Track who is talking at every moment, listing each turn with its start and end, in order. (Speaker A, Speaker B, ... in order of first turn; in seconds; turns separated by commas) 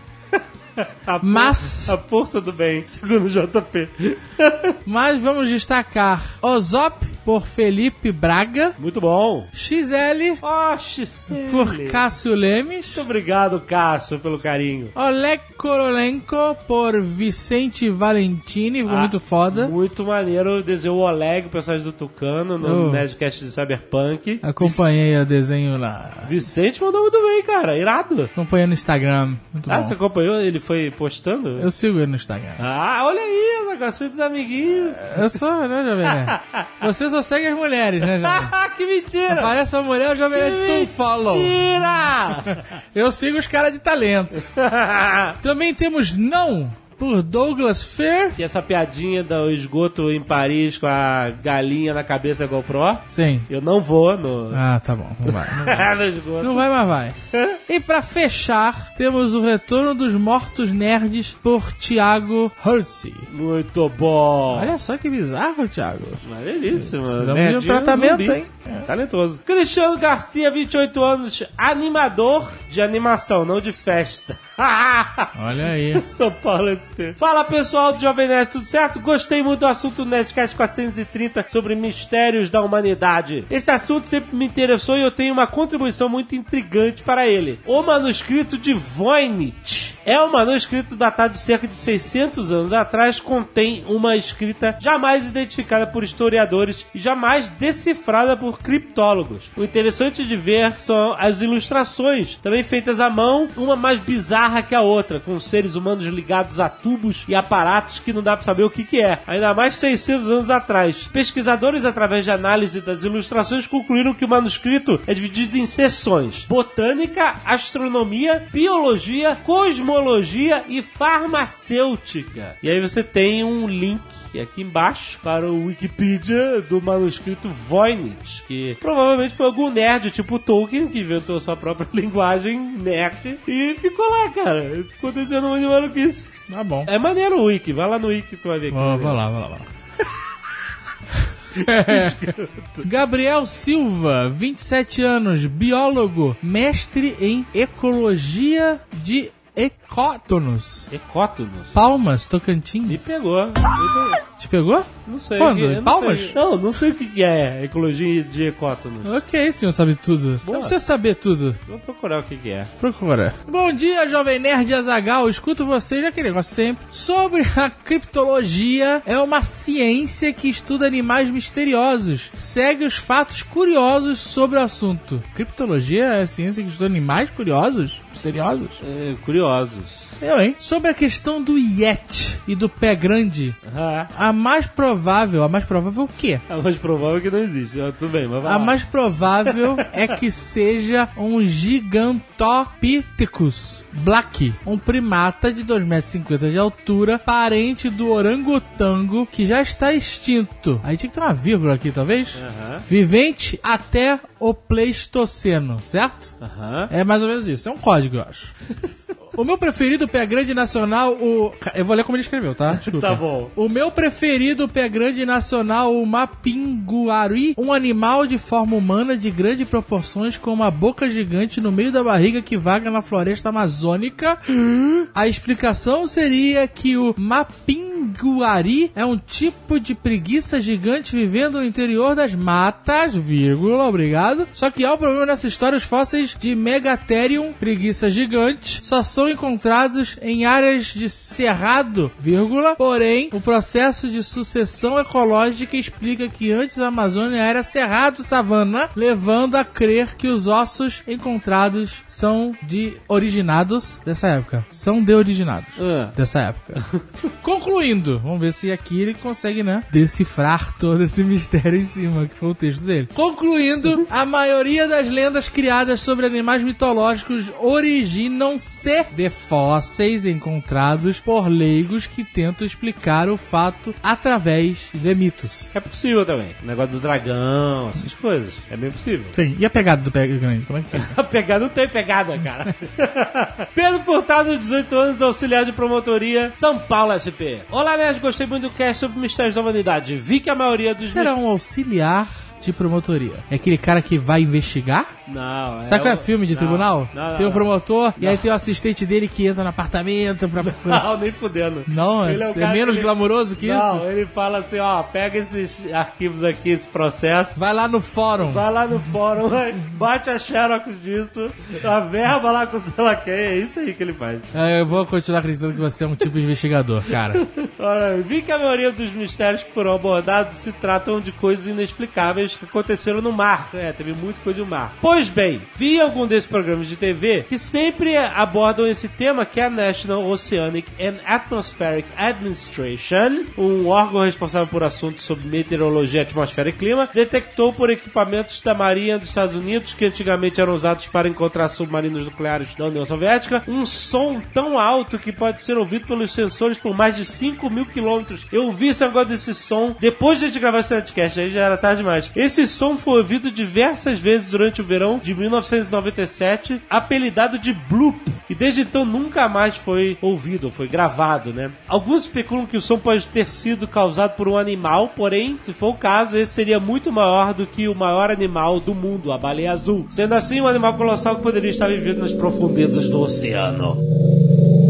Speaker A: 0.3-4.8, Speaker B: 1.2-1.9, Speaker B: 4.8-8.8, Speaker A: 8.8-9.5, Speaker B: 9.5-10.4, Speaker A: 10.4-12.0, Speaker B: 11.3-13.0, Speaker A: 12.9-14.9, Speaker B: 14.9-19.7, Speaker A: 18.9-25.0, Speaker B: 22.6-23.0, Speaker B: 24.4-26.3, Speaker A: 26.2-28.3, Speaker B: 28.3-29.9, Speaker A: 29.7-31.7, Speaker B: 31.6-32.6, Speaker A: 32.6-35.1, Speaker B: 34.9-38.5, Speaker A: 36.0-36.7, Speaker A: 38.2-39.5, Speaker B: 39.3-41.6, Speaker A: 40.3-42.6, Speaker B: 42.9-44.5, Speaker A: 44.5-45.4, Speaker B: 45.4-48.4, Speaker A: 48.4-54.6, Speaker B: 53.1-53.5, Speaker B: 54.5-57.2, Speaker A: 55.3-56.6, Speaker A: 57.3-57.6, Speaker B: 57.7-63.3, Speaker A: 63.3-64.7, Speaker B: 64.5-66.2, Speaker A: 66.2-75.3, Speaker B: 66.8-68.9, Speaker B: 75.3-76.0, Speaker A: 75.9-139.2, Speaker B: 136.5-136.9, Speaker B: 138.7-139.7, Speaker A: 141.6-142.9, Speaker B: 141.6-142.2, Speaker B: 142.8-150.9, Speaker A: 150.9-151.8, Speaker B: 151.7-153.0, Speaker A: 152.9-154.2, Speaker B: 154.4-156.3, Speaker A: 155.1-159.1, Speaker B: 159.0-161.6, Speaker A: 160.4-160.8, Speaker A: 161.7-162.7, Speaker B: 162.8-178.8, Speaker A: 178.8-180.1, Speaker B: 180.2-183.6, Speaker A: 183.6-184.1, Speaker B: 184.1-186.4, Speaker A: 186.5-188.8, Speaker B: 188.4-206.3, Speaker A: 202.3-202.8, Speaker A: 206.4-206.9, Speaker B: 206.9-208.5, Speaker B: 209.3-256.8, Speaker A: 212.7-213.5, Speaker A: 255.8-256.1, Speaker B: 257.4-275.7, Speaker A: 275.7-279.3, Speaker B: 279.3-281.1, Speaker A: 280.9-291.4, Speaker B: 291.0-295.1, Speaker A: 295.3-298.4, Speaker B: 295.8-301.0, Speaker A: 300.6-307.6, Speaker B: 301.9-304.0, Speaker B: 307.5-308.6, Speaker A: 308.4-314.5, Speaker B: 314.5-317.4, Speaker A: 317.2-374.0